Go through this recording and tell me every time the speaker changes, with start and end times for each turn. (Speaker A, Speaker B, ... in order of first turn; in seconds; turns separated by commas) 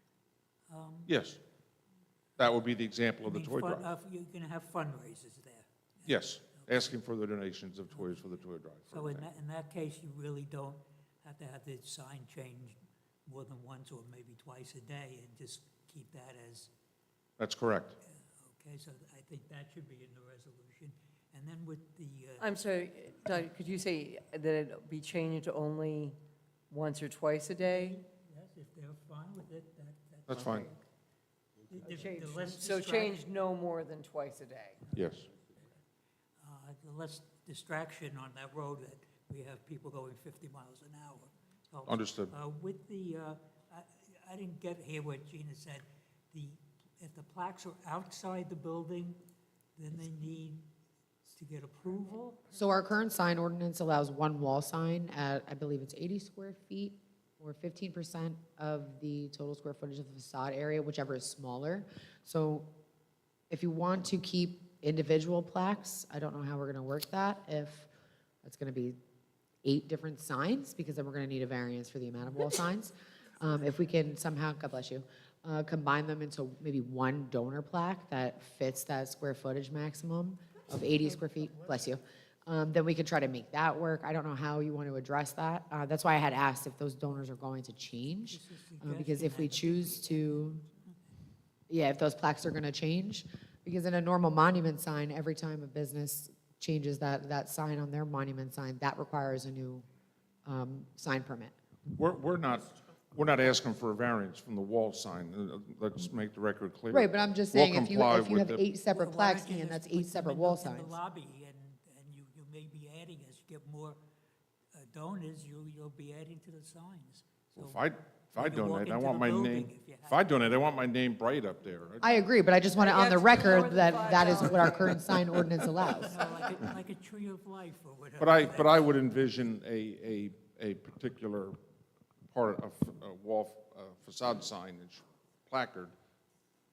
Speaker A: 0.7-1.1, Speaker B: 1.1-1.4, Speaker B: 2.4-3.9, Speaker A: 3.2-6.9, Speaker B: 6.0-9.3, Speaker A: 7.9-8.2, Speaker A: 8.9-16.7, Speaker B: 17.4-17.9, Speaker A: 18.1-22.5, Speaker C: 22.4-26.2, Speaker C: 26.7-28.0, Speaker A: 27.6-30.8, Speaker B: 30.3-30.7, Speaker C: 30.3-30.7, Speaker A: 31.7-33.2, Speaker C: 31.8-34.8, Speaker B: 34.9-35.3, Speaker A: 36.4-49.2, Speaker B: 41.9-42.3, Speaker A: 49.8-50.7, Speaker A: 51.3-52.5, Speaker D: 52.5-62.7, Speaker D: 63.5-67.9, Speaker D: 68.4-69.0, Speaker D: 69.6-90.6, Speaker A: 88.3-90.3, Speaker D: 91.7-99.8, Speaker D: 100.4-101.5, Speaker B: 101.8-108.6, Speaker D: 106.9-111.0, Speaker A: 108.9-114.0, Speaker A: 114.7-117.8, Speaker B: 117.5-122.1, Speaker A: 118.3-120.4, Speaker D: 122.0-126.3, Speaker C: 122.7-125.3, Speaker A: 125.9-129.0, Speaker B: 128.2-131.6, Speaker B: 132.3-135.9